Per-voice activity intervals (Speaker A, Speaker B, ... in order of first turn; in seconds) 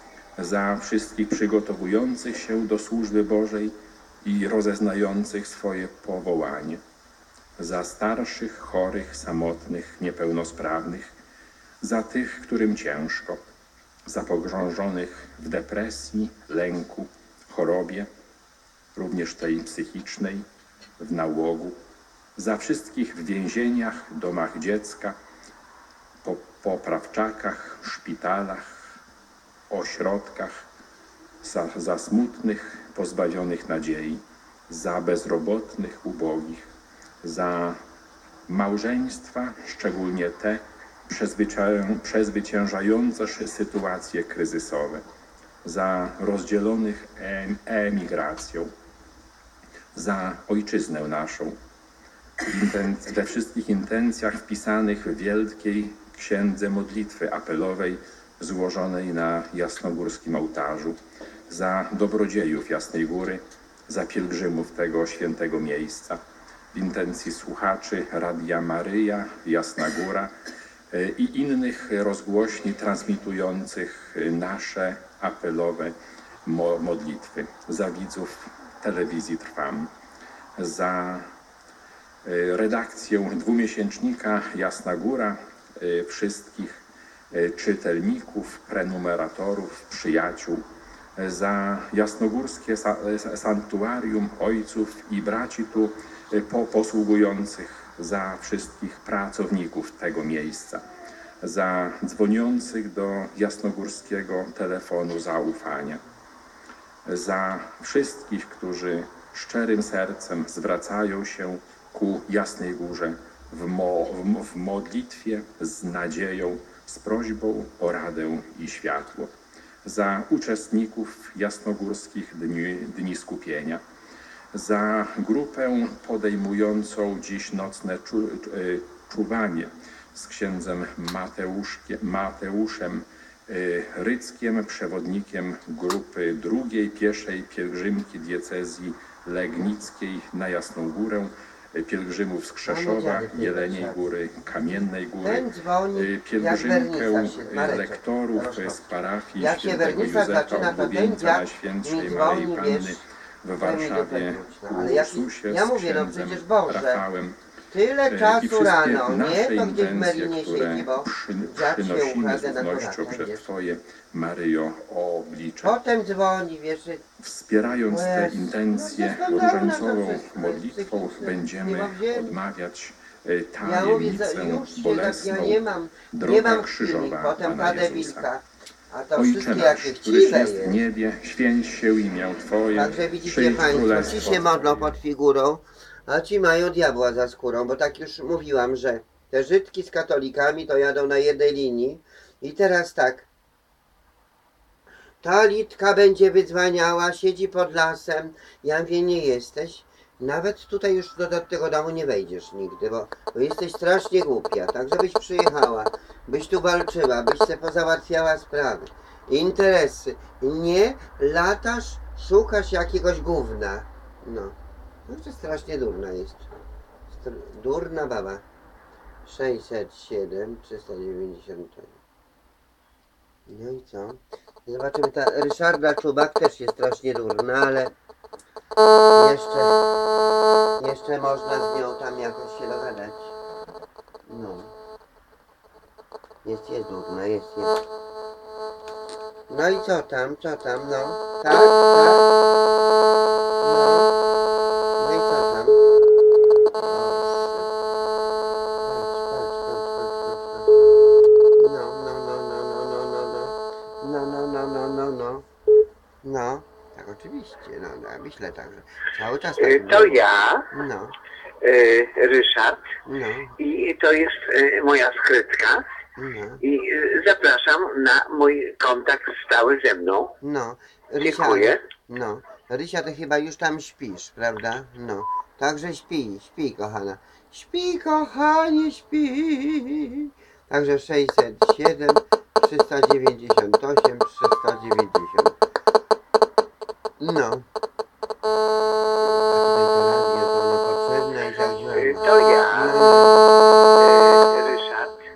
Speaker A: 0.4-6.8, 7.6-11.1, 11.8-13.4, 14.1-18.1, 18.9-20.4, 21.0-21.8, 22.4-25.1, 26.2-29.0, 29.7-30.6, 31.4-36.7, 37.2-37.8, 38.5-45.0, 45.6-48.7, 49.9-51.5, 52.4-61.0, 61.5-66.2, 66.7-70.3, 70.9-79.9, 80.6-81.2, 82.2-90.6, 91.2-100.8, 101.4-106.0, 107.0-119.3, 119.8-123.8, 124.5-157.3, 158.0-165.8, 167.2-178.3, 179.1-185.0
Speaker B: 142.6-144.1, 145.2-153.0, 153.6-157.0, 157.7-163.5, 165.6-167.0, 167.8-172.4, 173.6-180.8, 182.7-193.3, 195.2-214.5, 215.1-216.5, 217.1-218.4, 219.2-222.0, 223.5-227.9, 229.1-229.8, 230.8-233.3, 234.3-234.7, 236.4-237.8, 239.5-242.3, 243.6-244.1, 245.0-245.8, 246.7-247.7, 248.8-250.8, 251.6-255.4, 256.2-261.1, 263.0-263.6, 266.2-266.6, 270.4-285.6, 287.2-287.6, 289.3-293.5
Speaker C: 259.6-260.7, 261.6-262.9, 263.6-265.8, 266.6-270.3, 271.2-271.8, 291.9-293.1, 294.0-295.2